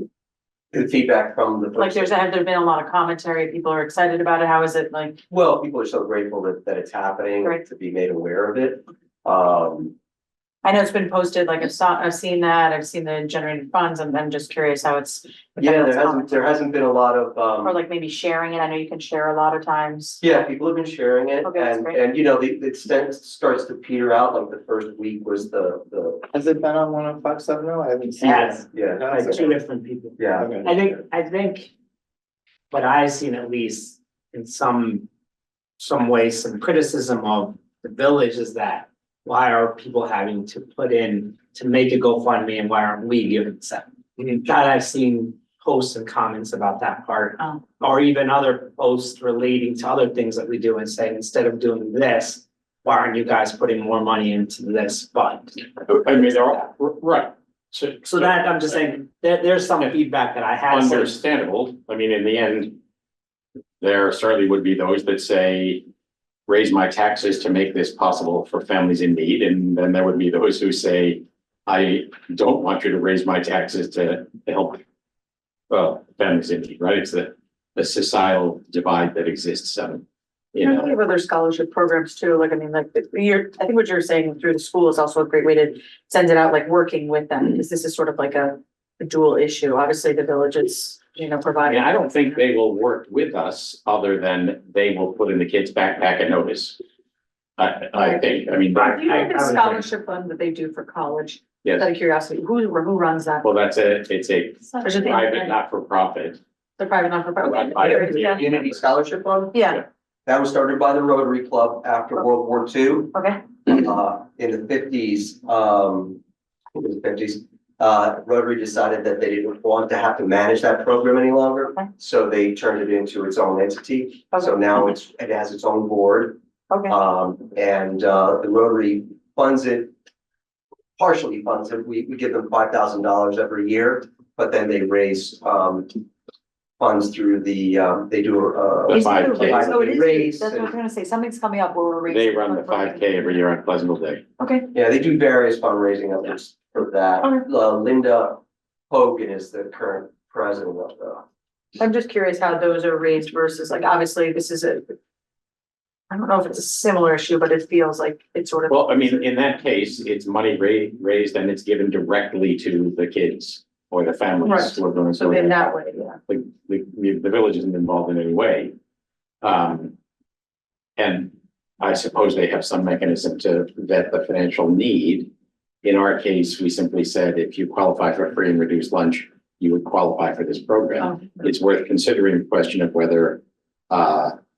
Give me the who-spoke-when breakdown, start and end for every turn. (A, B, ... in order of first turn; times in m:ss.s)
0:00.7-0:02.1 A
0:01.8-0:05.2 B
0:05.3-0:09.9 A
0:10.6-0:16.6 B
0:15.6-0:17.8 A
0:17.6-0:20.2 B
0:20.2-0:26.2 A
0:21.4-0:22.0 B
0:26.3-0:29.6 C
0:28.2-0:31.7 D
0:28.7-0:29.4 A
0:30.2-0:31.0 A
0:30.4-0:30.7 C
0:32.7-0:35.1 D
0:35.8-0:55.7 D
0:55.9-0:58.5 E
0:58.0-1:01.2 D
1:00.7-1:02.8 E
1:03.8-1:05.8 E
1:06.5-1:14.8 E
1:15.7-1:21.0 E
1:20.6-1:32.2 B
1:31.6-1:36.8 E
1:37.6-1:39.1 E
1:38.7-1:39.8 D
1:38.9-1:43.5 B
1:43.4-1:46.4 E
1:44.7-1:45.6 B
1:46.8-1:48.5 B
1:47.5-1:48.1 E
1:47.8-1:49.6 A
1:49.5-1:49.8 B
1:50.2-1:56.2 A
1:53.1-1:53.7 B
1:56.7-2:06.4 A
2:06.7-2:07.0 B
2:06.9-2:09.9 A
2:11.0-2:16.0 A
2:16.8-2:20.7 A
2:18.9-2:19.7 E
2:18.9-2:23.3 B
2:22.1-2:24.2 E
2:24.4-2:24.7 B
2:24.7-2:31.2 A
2:27.2-2:27.5 B
2:31.8-2:34.9 B
2:36.1-2:39.2 B
2:38.7-2:48.7 E
2:44.4-2:46.2 B
2:49.4-2:49.9 E
2:51.0-2:55.3 E
2:55.8-3:04.3 E
3:01.0-3:01.4 B